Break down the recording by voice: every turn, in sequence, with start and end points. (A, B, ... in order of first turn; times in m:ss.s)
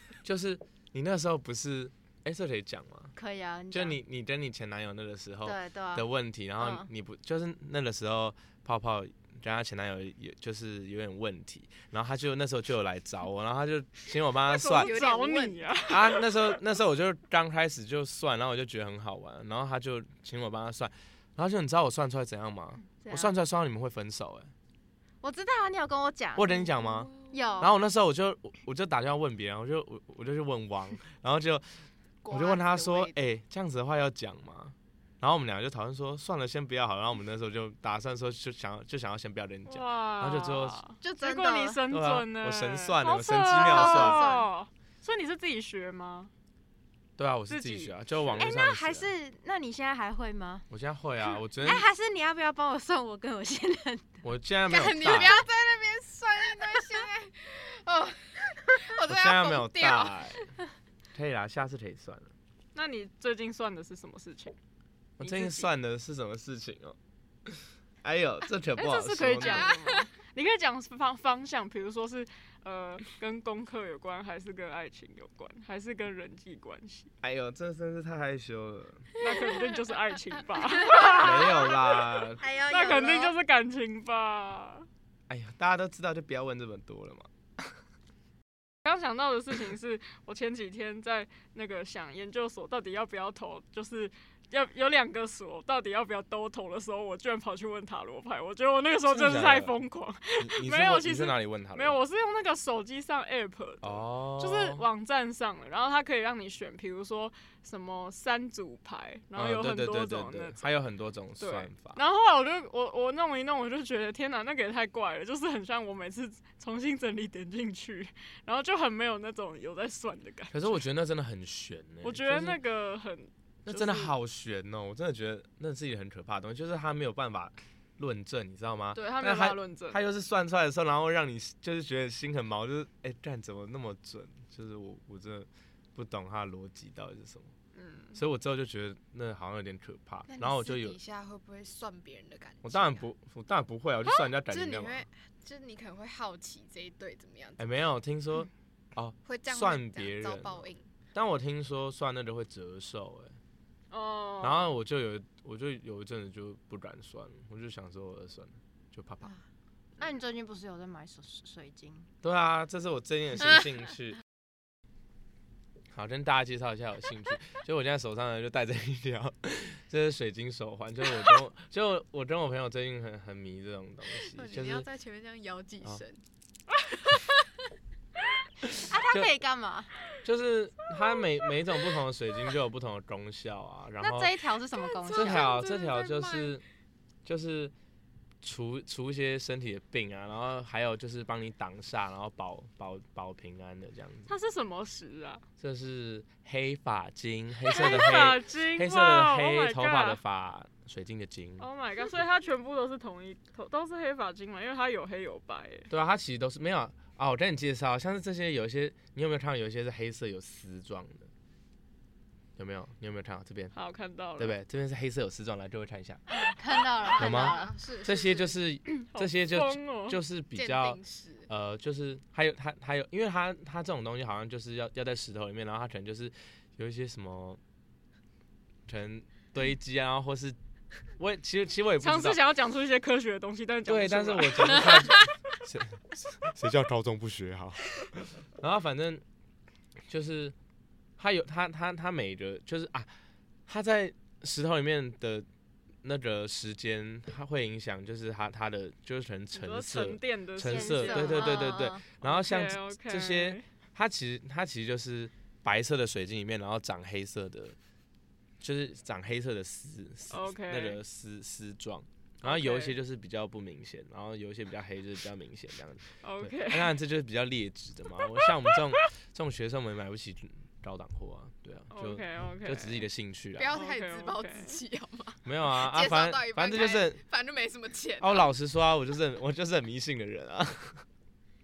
0:00.2-0:03.1 A
0:03.1-0:04.0 B
0:03.7-0:14.9 A
0:05.4-0:06.1 B
0:06.6-0:06.9 B
0:14.5-0:16.6 C
0:14.7-0:15.7 D
0:15.9-0:24.5 A
0:22.9-0:23.4 B
0:25.2-0:27.7 B
0:26.4-0:31.8 A
0:26.8-0:27.6 D
0:32.2-0:33.2 D
0:32.3-0:40.8 A
0:39.7-0:46.3 C
0:41.0-0:41.8 B
0:41.9-0:44.3 A
0:43.7-0:44.4 B
0:43.8-0:44.4 D
0:47.2-0:49.1 A
0:47.5-0:48.4 C
0:48.4-0:50.7 B
0:50.7-0:51.9 A
0:51.6-0:54.2 B
0:54.2-0:55.4 A
0:54.7-1:00.6 D
0:59.0-1:00.5 A
1:01.1-1:02.3 A
1:02.8-1:04.6 C
1:05.2-1:07.0 A
1:05.2-1:05.7 C
1:07.5-1:09.7 A
1:08.8-1:17.1 C
1:09.4-1:10.1 D
1:17.2-1:19.1 A
1:19.2-1:21.8 C
1:21.0-1:21.8 B
1:21.2-1:22.4 A
1:22.4-1:23.4 B
1:22.7-1:24.9 C
1:25.3-1:27.8 A
1:28.8-1:50.7 C
1:39.1-1:39.8 A
1:40.4-1:42.0 A
1:43.8-1:44.8 A
1:49.4-1:52.0 A
1:51.4-2:00.8 C
2:00.5-2:02.6 A
2:02.0-2:04.1 C
2:03.7-2:17.5 A
2:08.9-2:10.0 C
2:17.7-2:18.2 C
2:18.2-2:21.0 A
2:20.3-2:23.1 D
2:22.6-2:25.0 A
2:24.0-2:27.7 D
2:27.6-2:33.4 A
2:29.2-2:30.9 D
2:33.9-2:34.7 C
2:34.4-2:39.3 A
2:40.0-2:42.1 B
2:42.2-2:44.2 A
2:45.9-2:54.9 A
2:54.2-2:56.2 D
2:57.0-2:57.5 D
2:58.6-2:59.3 A
2:58.7-2:59.9 B
3:00.2-3:04.4 A
3:04.0-3:05.5 B
3:04.7-3:06.5 D
3:05.1-3:06.6 A
3:07.2-3:07.7 A
3:08.4-3:14.3 A
3:14.3-3:15.4 C
3:15.6-3:21.7 A
3:17.7-3:20.2 C
3:21.6-3:25.9 C
3:25.9-3:31.3 A
3:32.6-3:33.7 A
3:33.7-3:34.5 C
3:34.4-3:36.2 A
3:36.3-3:37.7 B
3:37.0-3:38.6 D
3:37.2-3:47.6 A
3:38.9-3:40.2 C
3:40.6-3:41.5 D
3:48.9-3:50.6 A
3:51.2-3:52.4 A
3:52.0-3:55.3 C
3:53.9-3:59.2 A
4:00.1-4:00.6 A
4:01.2-4:03.1 A
4:03.7-4:05.5 A
4:06.0-4:17.8 A
4:09.5-4:13.6 C
4:10.7-4:12.0 B
4:18.6-4:33.7 A
4:20.3-4:21.0 C
4:22.4-4:23.0 C
4:26.2-4:27.0 C
4:31.9-4:33.0 C
4:33.6-4:38.5 D
4:33.7-4:34.8 C
4:35.4-4:37.2 A
4:38.2-4:41.0 A